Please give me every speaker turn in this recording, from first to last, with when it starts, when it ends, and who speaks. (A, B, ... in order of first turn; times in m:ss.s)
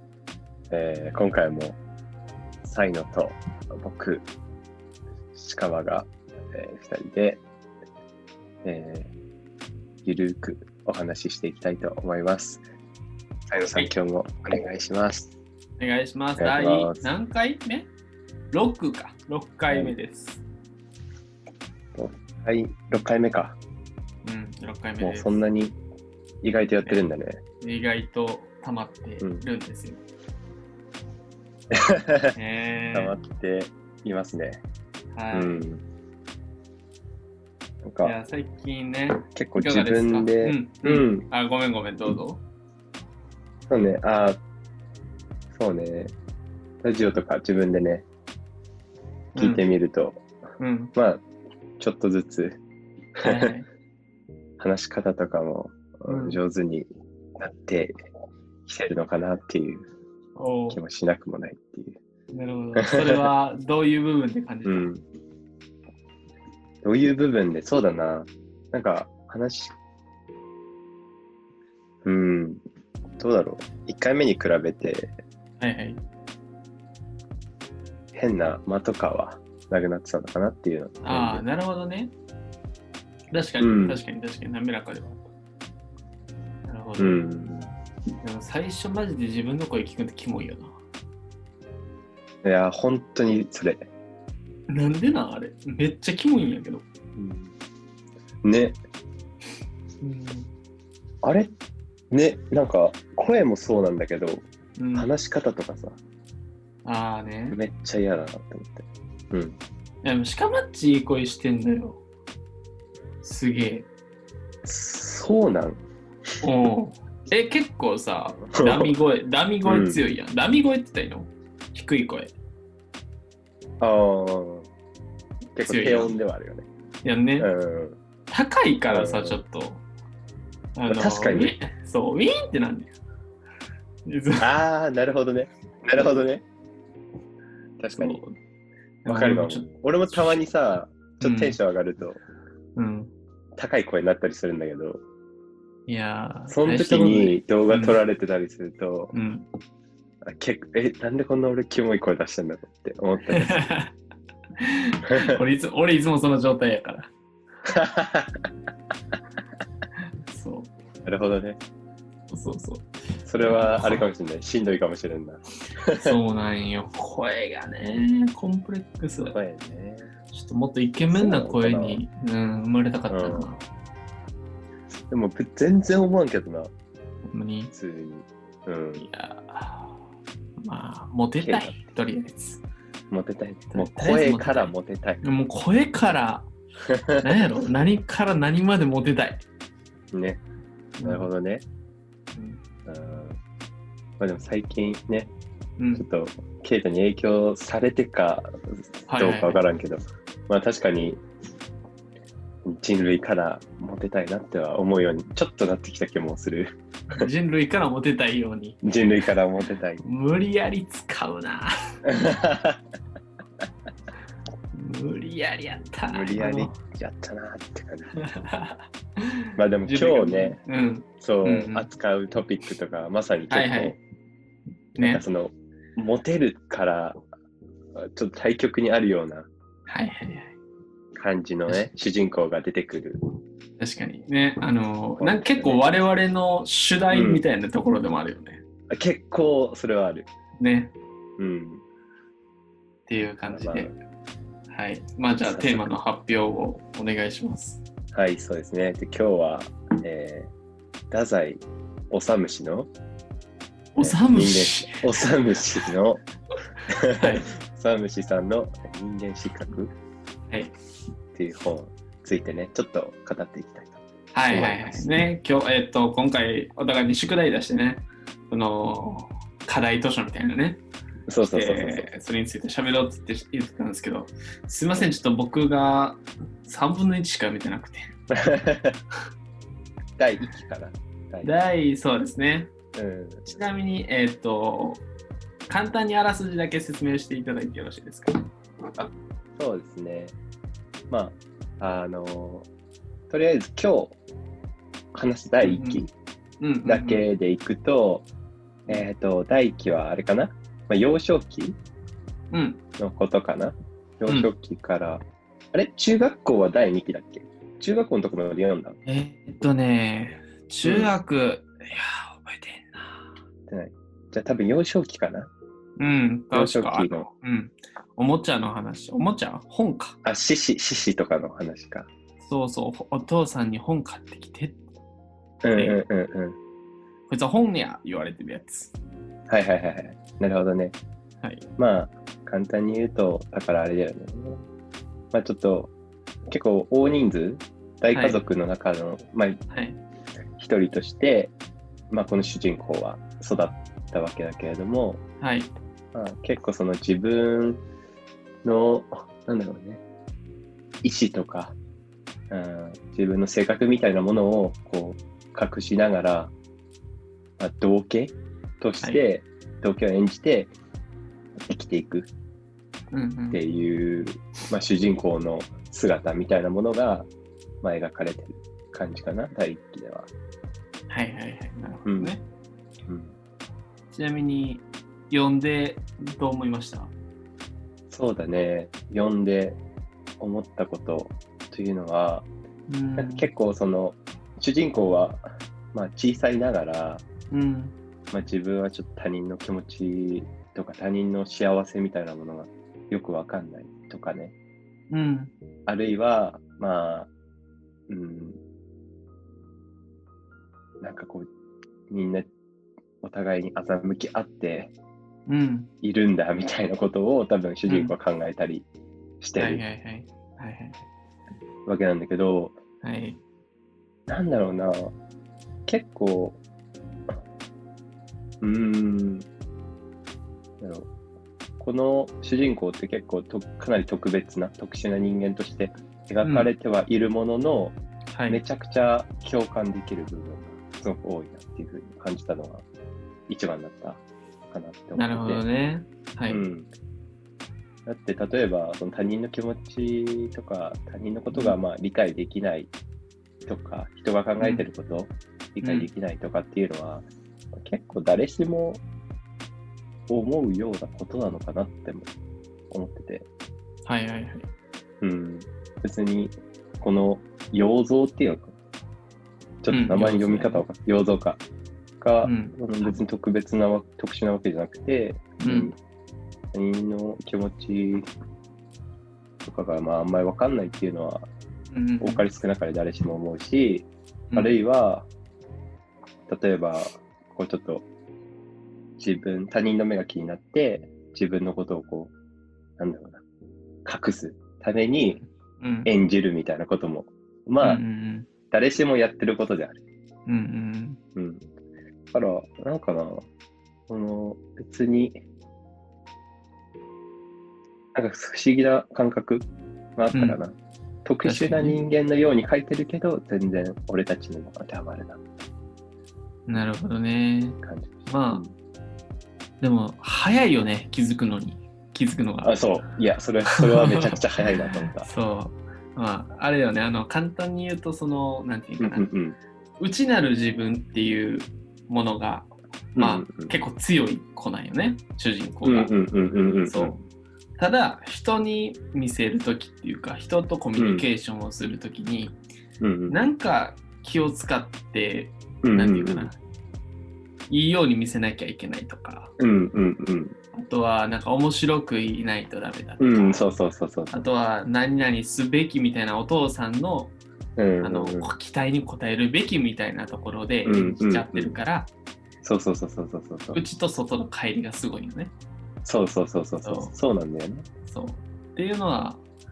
0:00.7-0:01.8 A
0:02.6-0:04.3 A
0:05.4-0:07.4 A
0:08.6-0:09.1 A
0:10.0-0:12.6 A
0:13.5-0:15.3 A
0:15.8-0:17.9 B
0:16.4-0:17.1 A
0:18.5-0:20.4 B
0:19.7-0:20.0 A
0:22.0-0:23.6 A
0:24.2-0:25.4 B
0:25.0-0:25.8 A
0:26.4-0:27.4 A
0:27.6-0:30.0 B
0:31.7-0:32.4 A
0:32.4-0:33.2 B
0:32.9-0:34.6 A
0:35.1-0:35.7 B
0:35.3-0:35.8 A
0:37.8-0:38.1 A
0:38.0-0:42.4 B
0:39.4-0:41.3 A
0:43.7-0:44.4 A
0:45.5-0:46.1 A
0:46.8-0:48.1 A
0:49.3-0:50.2 A
0:49.4-0:49.7 B
0:50.6-0:50.9 B
0:51.0-0:51.2 A
0:51.8-0:52.6 A
0:53.2-0:53.6 A
0:53.2-0:53.7 B
0:54.6-0:57.9 A
0:56.1-0:56.4 B
0:58.7-0:59.9 A
1:00.4-1:00.8 B
1:00.7-1:02.0 A
1:02.3-1:04.9 B
1:02.8-1:03.3 A
1:04.6-1:05.0 A
1:06.8-1:09.8 A
1:12.0-1:12.6 A
1:13.2-1:15.1 A
1:15.6-1:16.0 B
1:18.1-1:21.4 A
1:21.0-1:22.1 B
1:23.3-1:25.3 B
1:23.6-1:24.0 A
1:26.7-1:27.2 B
1:27.0-1:27.7 A
1:28.2-1:30.8 B
1:32.4-1:33.9 A
1:34.7-1:36.8 B
1:37.2-1:37.5 A
1:38.4-1:38.8 A
1:40.0-1:40.5 B
1:41.2-1:41.5 A
1:42.1-1:46.0 A
1:44.8-1:45.1 B
1:46.8-1:47.6 B
1:47.5-1:49.6 A
1:50.0-1:52.0 B
1:53.2-1:53.9 B
1:54.6-1:55.8 A
1:56.4-2:02.3 B
1:58.4-1:59.0 A
1:59.7-2:00.0 A
2:03.8-2:04.7 A
2:05.6-2:06.7 A
2:05.6-2:06.1 B
2:07.0-2:07.5 B
2:07.4-2:08.0 A
2:08.3-2:09.8 B
2:08.9-2:09.4 A
2:10.8-2:12.9 B
2:10.9-2:11.6 A
2:14.1-2:14.5 B
2:14.4-2:16.4 A
2:17.8-2:18.2 A
2:18.0-2:18.4 B
2:19.0-2:22.2 A
2:19.1-2:20.4 B
2:21.2-2:21.6 B
2:22.8-2:23.1 B
2:23.6-2:25.0 A
2:25.9-2:28.0 B
2:26.5-2:29.1 A
2:29.1-2:29.5 B
2:30.2-2:33.6 A
2:33.3-2:33.9 B
2:34.6-2:37.1 B
2:37.7-2:38.4 A
2:40.3-2:40.7 B
2:41.0-2:41.6 A
2:42.3-2:44.1 B
2:43.3-2:46.2 A
2:45.9-2:49.4 B
2:49.2-2:50.1 A
2:50.3-2:53.6 B
2:51.1-2:52.0 A
2:53.1-2:53.5 A
2:55.1-2:56.7 A
2:57.3-2:57.7 B
2:57.7-2:59.1 A
2:59.0-3:00.0 B
3:00.6-3:02.6 B
3:01.4-3:01.8 A
3:03.1-3:05.2 A
3:03.7-3:06.5 B
3:06.9-3:07.5 A
3:07.2-3:09.4 B
3:10.1-3:10.4 A
3:11.0-3:11.3 B
3:11.0-3:11.6 A
3:12.4-3:12.6 B
3:12.9-3:13.4 A
3:14.2-3:15.3 A
3:15.8-3:16.1 B
3:15.9-3:21.2 A
3:19.1-3:19.6 B
3:22.6-3:27.3 A
3:27.1-3:28.8 B
3:28.8-3:30.0 A
3:30.0-3:31.7 B
3:32.0-3:32.8 A
3:34.7-3:36.8 B
3:36.1-3:38.2 A
3:38.2-3:41.9 B
3:39.6-3:40.6 A
3:41.2-3:44.0 A
3:43.5-3:44.0 B
3:45.0-3:45.2 B
3:45.0-3:47.2 A
3:48.0-3:49.5 A
3:49.9-3:50.6 B
3:51.2-3:53.2 A
3:53.8-3:58.6 B
3:55.2-3:55.9 A
3:57.1-3:57.4 A
3:58.9-4:00.3 A
4:00.6-4:00.9 B
4:01.4-4:01.8 A
4:03.1-4:03.9 B
4:03.5-4:03.9 A
4:04.7-4:07.8 B
4:05.5-4:05.9 A
4:08.1-4:10.5 A
4:11.1-4:12.9 A
4:14.0-4:15.1 B
4:14.0-4:16.2 A
4:16.9-4:19.9 A
4:17.2-4:17.5 B
4:21.3-4:25.2 A
4:24.3-4:30.8 B
4:31.3-4:32.1 A
4:31.5-4:38.1 B
4:38.3-4:39.0 A
4:40.2-4:41.5 A
4:41.4-4:42.7 B
4:42.9-4:43.6 A
4:43.5-4:45.0 B
4:45.7-4:48.5 B
4:49.0-4:50.4 A
4:51.1-4:52.7 A
4:53.3-4:54.2 A
4:55.1-4:56.1 A
4:55.6-4:56.0 B
4:56.6-4:57.2 B
4:56.8-4:58.3 A
4:58.9-5:01.8 A
5:02.5-5:02.8 B
5:03.0-5:09.0 A
5:09.1-5:13.3 B
5:10.8-5:11.1 A
5:13.7-5:15.5 A
5:16.0-5:20.2 B
5:16.5-5:17.3 A
5:20.2-5:22.1 A
5:22.4-5:24.8 B
5:25.6-5:26.6 A
5:25.7-5:26.0 B
5:27.3-5:28.9 B
5:29.5-5:31.0 A
5:31.8-5:34.6 A
5:35.3-5:35.9 A
5:36.5-5:39.6 A
5:38.1-5:38.4 B
5:39.7-5:40.0 B
5:40.6-5:41.5 A
5:42.1-5:45.2 A
5:45.4-5:45.7 B
5:46.1-5:47.8 A
5:48.6-5:50.0 A
5:51.0-5:51.8 A
5:52.5-5:56.5 A
5:57.6-6:00.7 A
6:01.7-6:02.3 A
6:03.1-6:03.6 B
6:03.5-6:07.3 A
6:07.8-6:10.3 A
6:11.1-6:12.4 B
6:12.1-6:12.4 A
6:13.1-6:13.4 A
6:14.1-6:17.1 B
6:18.1-6:19.8 A
6:20.4-6:22.5 A
6:22.9-6:23.5 B
6:23.2-6:27.2 A
6:27.5-6:28.0 B
6:28.3-6:34.5 A
6:35.1-6:35.5 B
6:35.9-6:37.3 A
6:38.1-6:38.6 A
6:41.0-6:41.5 A
6:42.1-6:42.5 A
6:43.2-6:44.9 A
6:45.5-6:45.9 B
6:46.0-6:48.9 A
6:47.9-6:48.2 B
6:49.4-6:49.8 A
6:49.6-6:51.0 B
6:51.9-6:52.8 A
6:53.0-6:53.4 B
6:54.3-6:55.1 A
6:55.9-6:56.6 A
6:58.6-6:59.5 A
7:00.8-7:01.1 A
7:01.8-7:08.0 A
7:06.4-7:06.7 B
7:08.3-7:08.6 B
7:08.5-7:12.8 A
7:13.5-7:15.6 A
7:15.2-7:16.6 B
7:16.5-7:16.9 A
7:18.1-7:22.9 A
7:23.7-7:29.0 A
7:24.6-7:24.8 B
7:25.8-7:26.1 B
7:30.3-7:32.3 A
7:32.9-7:33.5 A
7:34.0-7:34.7 B
7:35.2-7:38.8 A
7:39.8-7:41.6 A
7:39.9-7:40.8 B
7:42.2-7:46.0 A
7:42.4-7:43.2 B
7:45.6-7:45.9 B
7:46.7-7:48.3 A
7:49.6-7:51.5 A
7:51.9-7:52.5 B
7:52.2-7:55.3 A
7:54.5-7:54.8 B
7:56.5-7:58.1 A
7:59.2-8:02.3 A
8:03.0-8:03.4 A
8:04.0-8:05.4 A
8:05.4-8:06.1 B
8:06.1-8:08.0 A
8:07.8-8:08.5 B
8:08.7-8:10.0 A
8:10.5-8:11.2 B
8:11.4-8:11.6 A
8:12.3-8:13.5 A
8:14.1-8:15.4 A
8:18.1-8:25.6 A
8:20.3-8:20.6 B
8:21.4-8:22.0 B
8:26.7-8:28.6 B
8:27.8-8:28.7 A
8:29.8-8:32.8 B
8:32.6-8:35.3 A
8:33.7-8:39.3 B
8:39.0-8:39.6 A
8:40.0-8:46.2 B
8:43.2-8:43.7 A
8:45.8-8:47.2 A
8:46.9-8:47.2 B
8:47.8-8:52.6 B
8:51.0-8:51.2 A
8:53.0-8:53.5 A
8:53.3-8:56.6 B
8:55.8-8:56.5 A
8:57.7-8:59.5 B
8:59.6-9:00.6 A
9:00.7-9:03.7 B
9:03.2-9:04.4 A
9:04.3-9:07.4 B
9:07.8-9:08.5 A
9:08.0-9:12.1 B
9:10.8-9:11.8 A
9:12.6-9:13.8 A
9:13.7-9:15.5 B
9:16.0-9:17.9 A
9:16.8-9:17.2 B
9:18.1-9:19.4 B